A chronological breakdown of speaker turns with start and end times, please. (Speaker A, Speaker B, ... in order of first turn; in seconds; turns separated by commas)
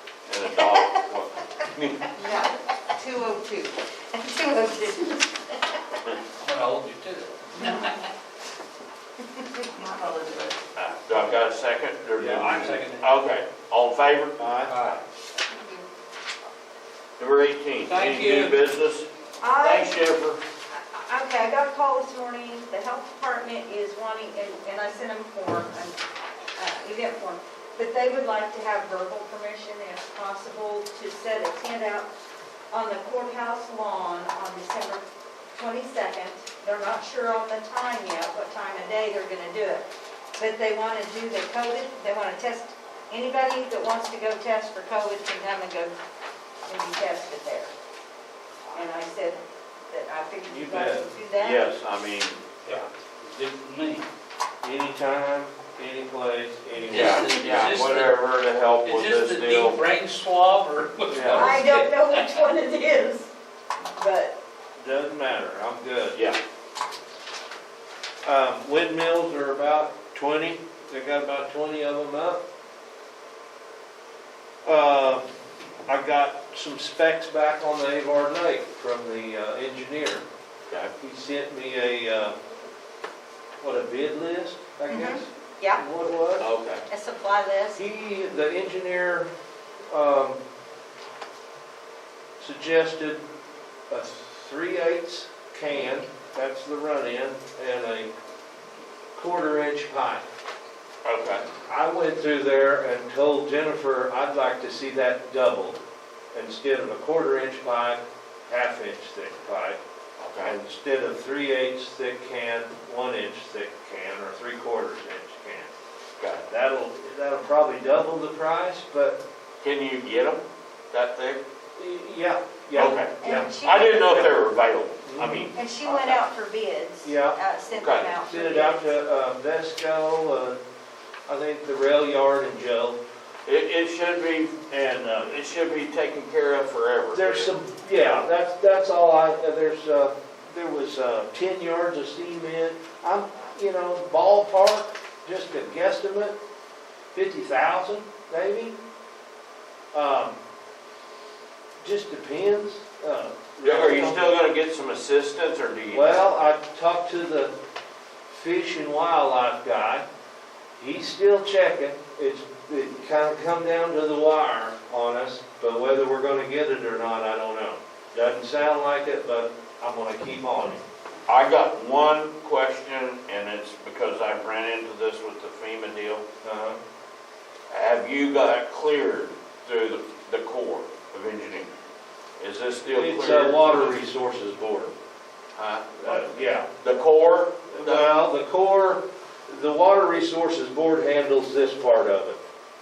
Speaker A: 0.3-2.1, Speaker B: 0.5-0.9, Speaker B: 2.1-6.0, Speaker C: 6.4-7.9, Speaker B: 7.5-8.0, Speaker B: 9.4-10.5, Speaker A: 10.7-14.9, Speaker C: 12.2-13.1, Speaker D: 14.4-14.7, Speaker C: 14.7-15.0, Speaker B: 15.5-15.8, Speaker A: 17.2-19.1, Speaker C: 17.9-18.6, Speaker B: 19.4-20.1, Speaker A: 19.6-20.4, Speaker B: 20.7-26.0, Speaker B: 26.6-32.1, Speaker B: 32.7-35.0, Speaker B: 35.5-39.8, Speaker B: 40.4-45.9, Speaker B: 46.6-47.7, Speaker B: 48.7-51.6, Speaker D: 50.5-51.0, Speaker A: 51.4-52.4, Speaker C: 52.6-54.0, Speaker D: 54.6-57.4, Speaker C: 56.9-58.2, Speaker A: 56.9-59.8, Speaker C: 58.8-62.4, Speaker A: 61.1-61.5, Speaker D: 61.1-61.5, Speaker B: 61.3-63.3, Speaker B: 63.8-64.3, Speaker D: 64.8-66.2, Speaker A: 66.1-66.4, Speaker D: 68.2-72.4, Speaker D: 74.6-75.2, Speaker D: 75.9-80.2, Speaker D: 81.0-82.3, Speaker D: 83.6-86.5, Speaker B: 84.9-85.8, Speaker A: 86.4-86.8, Speaker B: 86.9-87.8, Speaker D: 87.8-89.3, Speaker D: 89.9-90.4, Speaker D: 92.4-93.2, Speaker D: 93.9-98.1, Speaker D: 99.1-100.2, Speaker A: 101.0-101.4, Speaker D: 101.7-105.8, Speaker D: 106.3-109.8, Speaker A: 110.2-110.5, Speaker D: 110.4-115.7, Speaker A: 116.2-116.5, Speaker D: 116.5-119.2, Speaker A: 119.6-121.4, Speaker D: 121.8-123.5, Speaker A: 122.7-125.5, Speaker B: 123.2-124.1, Speaker D: 124.1-124.4, Speaker D: 125.0-126.2, Speaker B: 125.5-128.9, Speaker D: 127.0-127.4, Speaker A: 127.8-128.1, Speaker D: 128.2-130.6, Speaker D: 131.3-133.0, Speaker A: 133.4-137.5, Speaker D: 137.1-146.3, Speaker D: 147.1-148.8, Speaker D: 149.9-150.4, Speaker D: 151.8-154.3, Speaker A: 153.6-156.2, Speaker D: 155.9-157.5, Speaker D: 158.3-160.0, Speaker D: 160.8-170.8, Speaker A: 171.3-176.2, Speaker D: 176.4-176.8, Speaker A: 177.7-181.7, Speaker A: 182.4-184.0, Speaker D: 182.9-184.9, Speaker A: 185.6-186.2, Speaker D: 186.0-186.7, Speaker A: 186.8-188.2, Speaker D: 187.7-192.4